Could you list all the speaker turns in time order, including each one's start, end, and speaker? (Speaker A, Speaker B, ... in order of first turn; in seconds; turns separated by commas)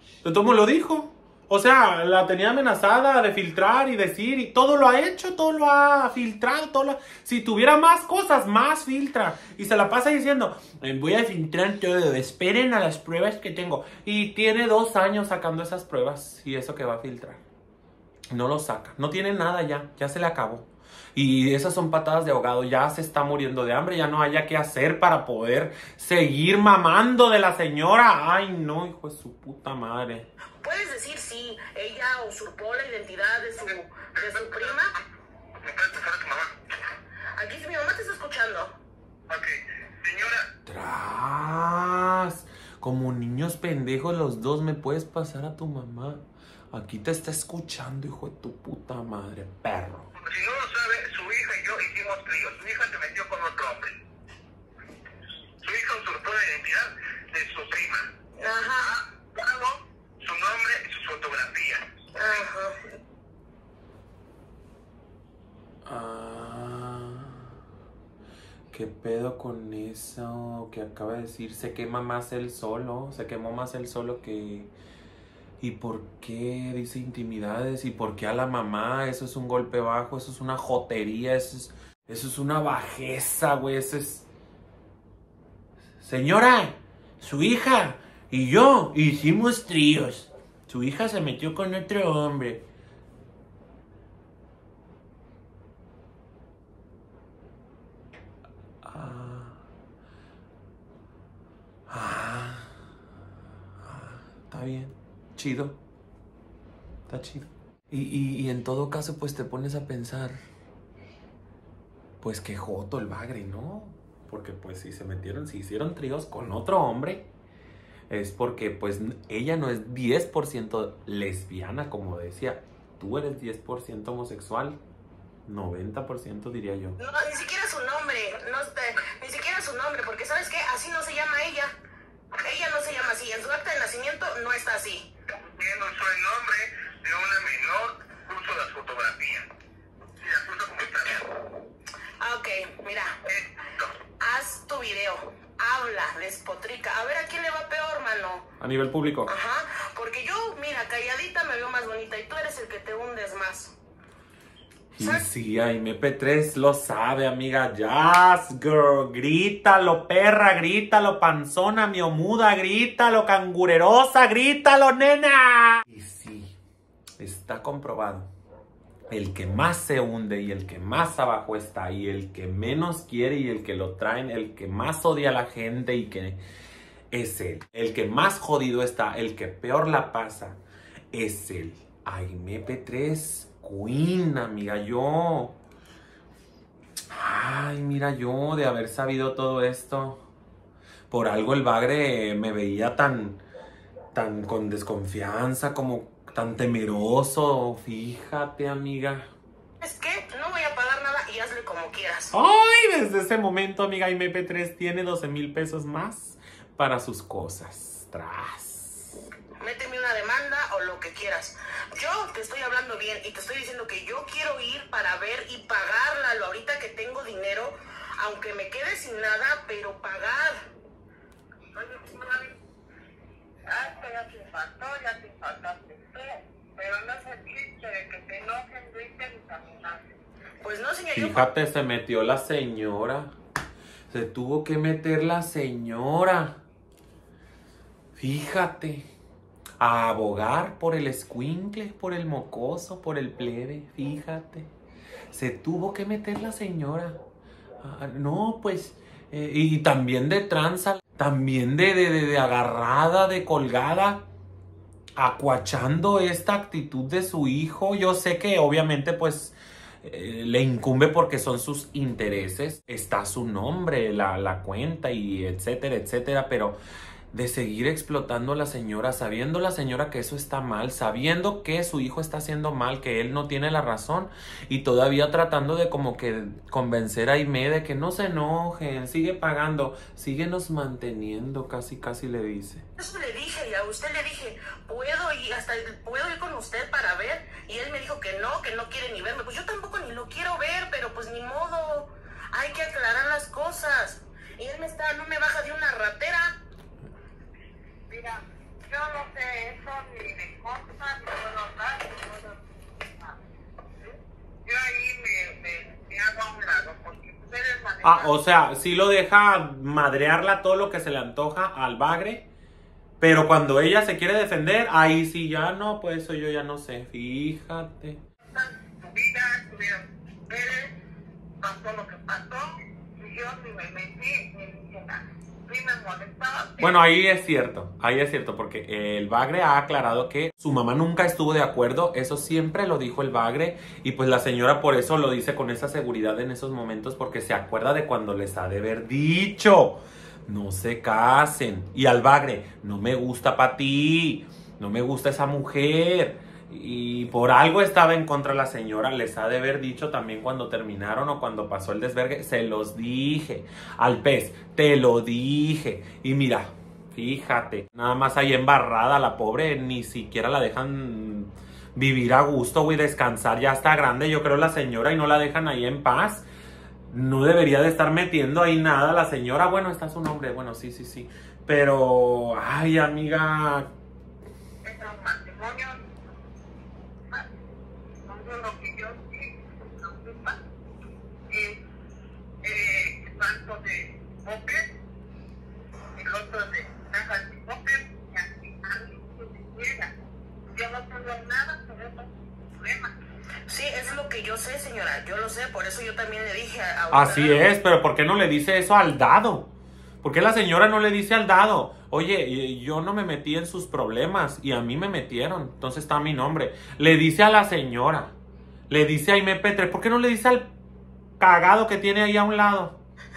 Speaker A: 0.2-17.4, Speaker A: 18.3-30.3, Speaker B: 30.6-34.9, Speaker C: 34.1-35.0, Speaker C: 35.6-36.6, Speaker B: 37.4-38.8, Speaker C: 39.3-40.5, Speaker A: 40.7-50.1, Speaker C: 50.1-54.0, Speaker C: 55.6-58.1, Speaker B: 58.4-59.0, Speaker C: 58.8-62.4, Speaker B: 62.1-63.0, Speaker A: 65.8-67.5, Speaker A: 68.7-74.7, Speaker A: 75.6-84.3, Speaker A: 86.0-92.6, Speaker A: 98.8-99.6, Speaker A: 101.9-102.8, Speaker A: 103.8-105.8, Speaker A: 107.1-110.4, Speaker A: 112.2-117.3, Speaker A: 118.1-124.8, Speaker A: 125.5-127.0, Speaker B: 127.0-131.8, Speaker B: 132.3-135.1, Speaker C: 135.3-139.5, Speaker C: 140.2-141.4, Speaker B: 142.2-143.2, Speaker C: 143.3-143.9, Speaker B: 144.2-148.5, Speaker A: 148.6-149.3, Speaker B: 149.3-153.8, Speaker A: 154.9-166.6, Speaker B: 155.0-155.2, Speaker A: 167.2-168.3, Speaker A: 169.1-176.4, Speaker A: 177.1-180.6, Speaker A: 181.1-185.6, Speaker A: 187.1-190.2, Speaker A: 191.1-193.4, Speaker A: 194.1-199.3, Speaker B: 199.8-202.3, Speaker A: 202.3-209.2, Speaker B: 209.6-220.7, Speaker C: 221.8-222.6, Speaker C: 223.7-230.1, Speaker B: 230.6-231.5, Speaker A: 231.1-233.3, Speaker A: 234.1-236.6, Speaker A: 238.2-239.1, Speaker A: 239.8-244.7, Speaker A: 245.3-247.2, Speaker A: 247.8-254.2, Speaker A: 255.2-266.8, Speaker A: 267.3-282.9, Speaker B: 283.0-296.6, Speaker C: 298.1-303.4, Speaker C: 304.6-308.3, Speaker A: 308.0-312.5, Speaker A: 313.2-318.2, Speaker C: 318.5-320.9, Speaker C: 321.6-326.9, Speaker A: 326.8-366.4, Speaker A: 367.1-373.9, Speaker C: 374.8-376.1, Speaker C: 378.2-380.6, Speaker C: 381.5-381.8, Speaker C: 382.6-384.9, Speaker C: 386.2-390.1, Speaker C: 390.7-393.1, Speaker B: 393.7-397.6, Speaker A: 397.1-399.7, Speaker A: 400.2-408.4, Speaker A: 408.9-410.7, Speaker A: 411.4-413.0